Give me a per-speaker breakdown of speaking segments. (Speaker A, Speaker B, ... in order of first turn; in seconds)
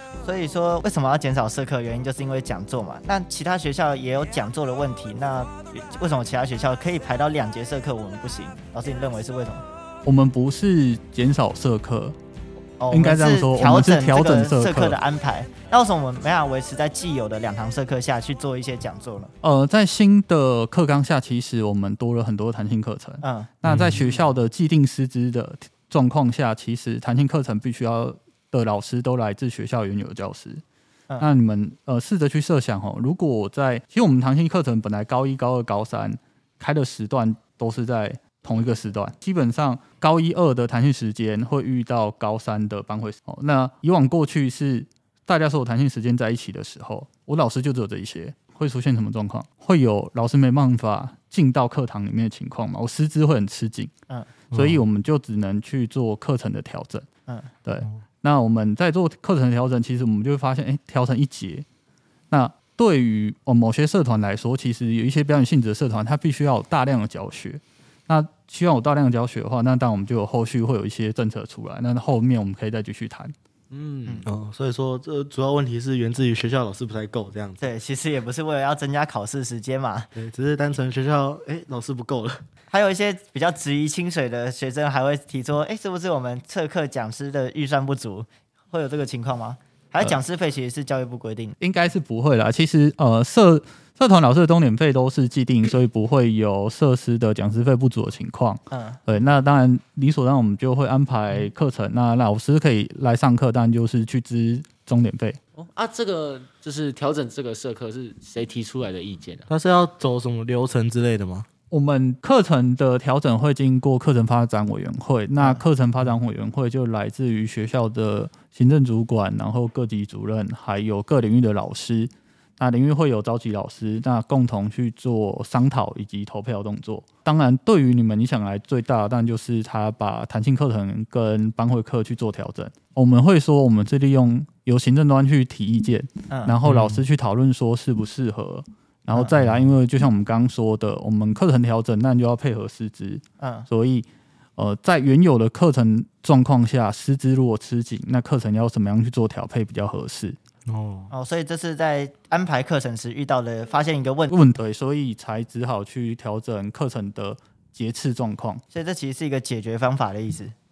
Speaker A: 0.2-9.6, 12.8-19.3, 23.2-23.5, 77.6-80.1, 82.7-91.5, 98.7-99.0, 136.3-136.6, 143.4-143.7, 151.1-154.3, 158.7-160.5
Speaker B: 10.0-12.2, 12.9-15.0, 19.4-30.6, 31.2-53.9, 54.5-57.0, 57.6-61.6, 62.3-73.3, 91.6-105.4, 111.7-144.1, 144.6-150.4, 154.3-158.6
Speaker C: 23.6-24.2, 54.5-54.8, 73.7-77.6, 80.1-82.4, 109.5-111.5, 136.6-137.1, 150.7-151.1
Speaker D: 105.6-109.5